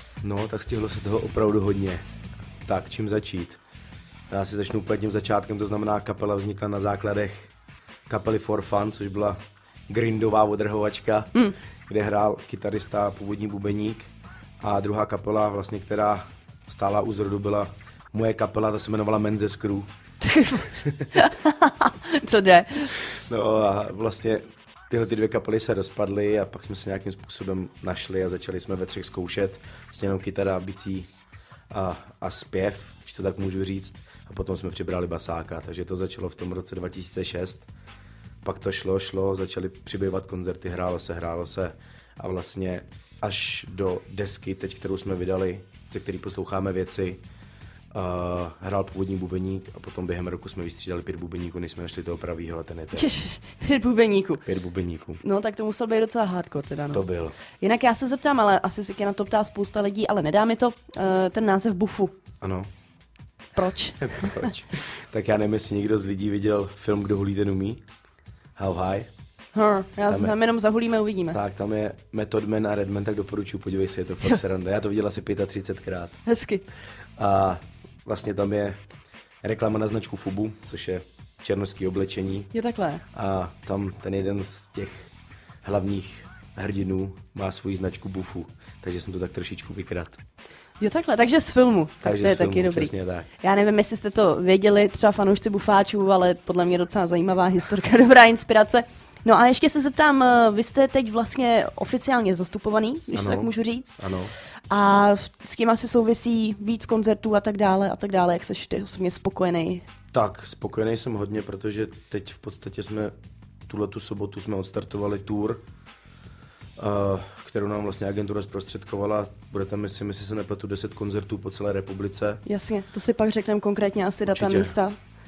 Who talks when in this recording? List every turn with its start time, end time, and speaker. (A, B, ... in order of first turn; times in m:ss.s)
0:00.2-0:02.1 A
0:02.6-0:03.6 A
0:04.3-0:07.5 A
0:08.1-0:09.4 A
0:09.9-0:11.3 A
0:11.9-0:14.1 A
0:14.6-0:19.9 A
0:20.2-0:23.0 B
0:20.7-0:21.1 A
0:23.1-0:31.1 A
0:31.7-0:37.7 A
0:38.4-0:47.2 A
0:47.9-0:53.1 A
0:53.0-0:54.5 B
0:54.5-0:55.2 A
0:55.2-1:02.1 B
0:56.9-0:57.4 A
1:02.4-1:02.7 A
1:03.6-1:04.5 B
1:04.0-1:07.8 A
1:08.6-1:09.1 A
1:09.5-1:11.4 B
1:10.1-1:10.4 A
1:11.3-1:16.2 A
1:16.3-1:16.6 B
1:17.2-1:18.8 A
1:19.4-1:22.5 A
1:22.5-1:23.0 B
1:23.1-1:25.1 A
1:25.6-1:30.2 A
1:30.8-1:44.0 B
1:32.0-1:33.3 A
1:43.1-1:44.4 A
1:44.7-1:49.8 B
1:50.1-1:53.1 A
1:53.7-1:55.6 A
1:56.8-2:02.4 A
2:02.4-2:05.0 B
2:04.2-2:04.8 A